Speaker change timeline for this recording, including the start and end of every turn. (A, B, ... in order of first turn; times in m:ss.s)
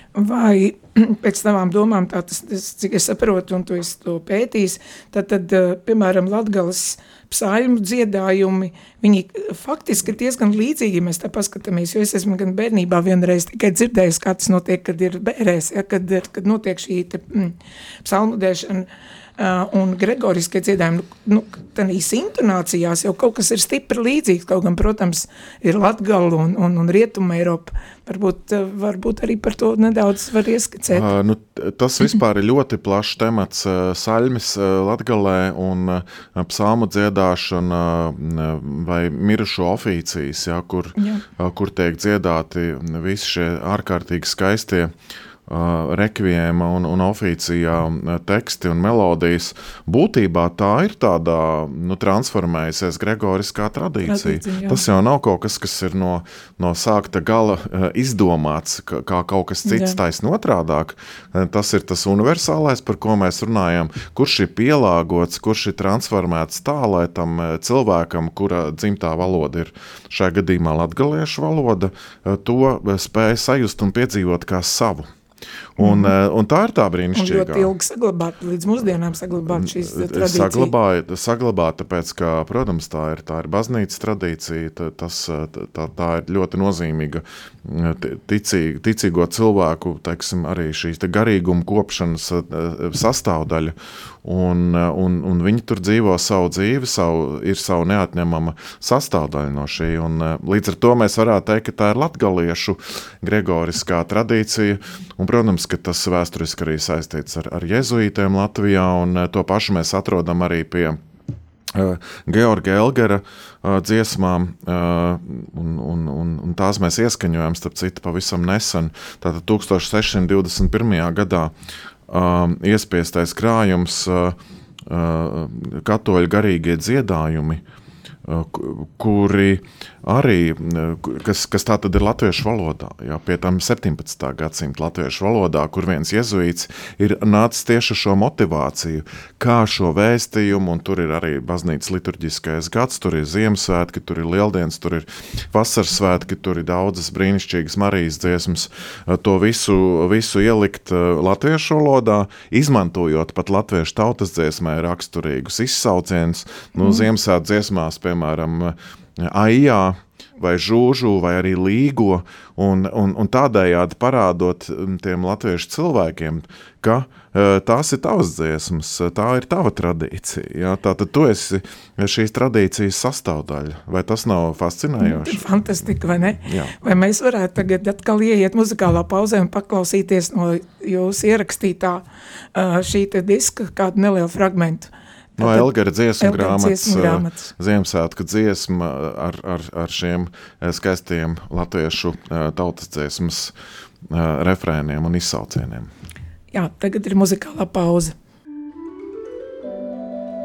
0:00.2-0:31.1 A
0:30.9-0:44.9 B
0:41.0-0:41.2 A
0:45.5-1:15.1 B
0:54.0-0:54.8 A
0:59.7-1:00.0 A
1:15.8-1:17.7 B
1:15.8-1:16.1 A
1:17.2-1:20.7 A
1:19.5-1:51.0 B
1:51.7-2:01.5 B
2:02.1-2:07.6 B
2:08.2-2:55.4 B
2:55.0-3:05.7 A
2:56.5-2:56.7 B
3:05.4-3:13.5 B
3:06.2-3:07.5 A
3:14.1-3:15.9 B
3:16.5-3:18.1 A